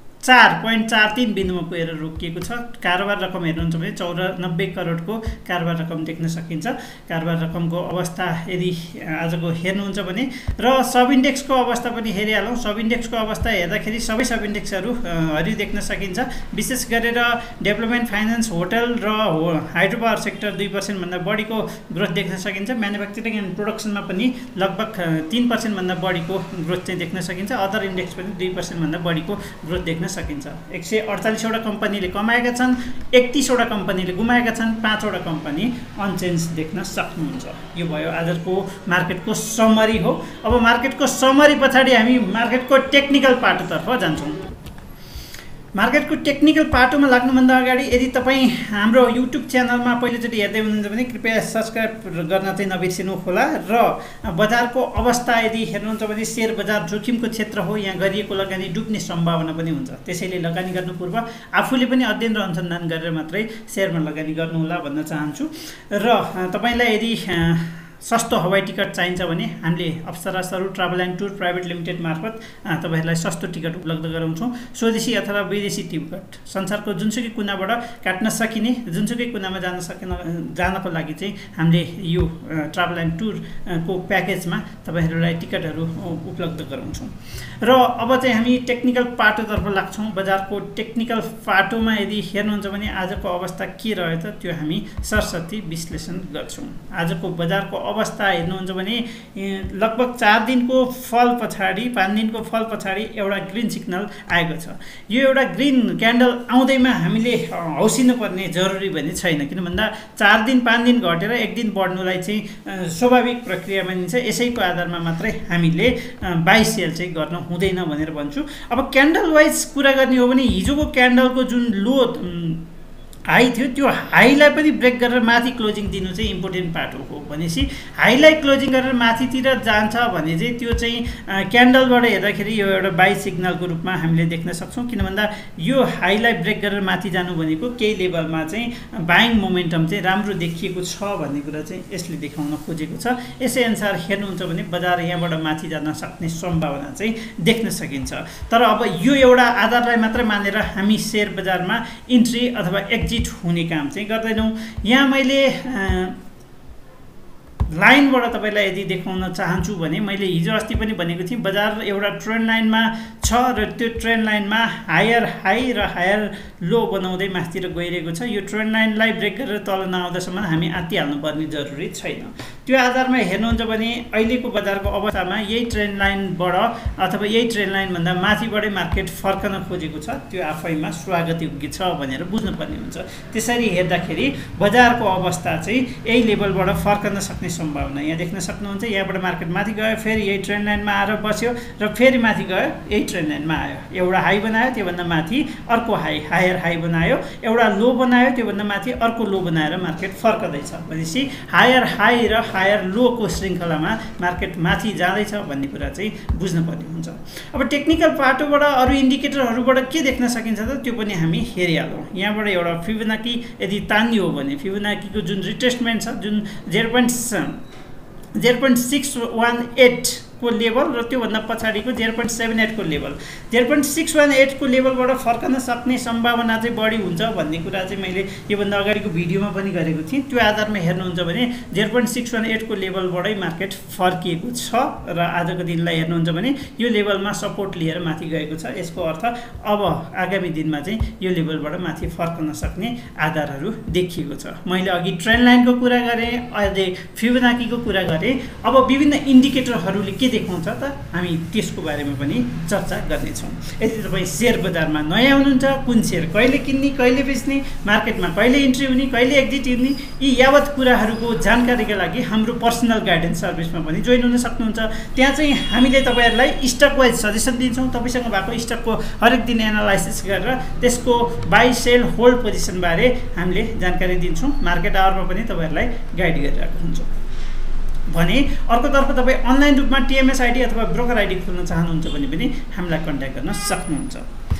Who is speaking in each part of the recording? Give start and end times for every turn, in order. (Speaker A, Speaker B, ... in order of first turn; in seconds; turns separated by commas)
Speaker A: 0.2-44.4, Speaker A: 45.7-122.6, Speaker A: 123.3-156.2, Speaker A: 157.7-217.6, Speaker A: 218.3-277.1, Speaker A: 278.1-284.3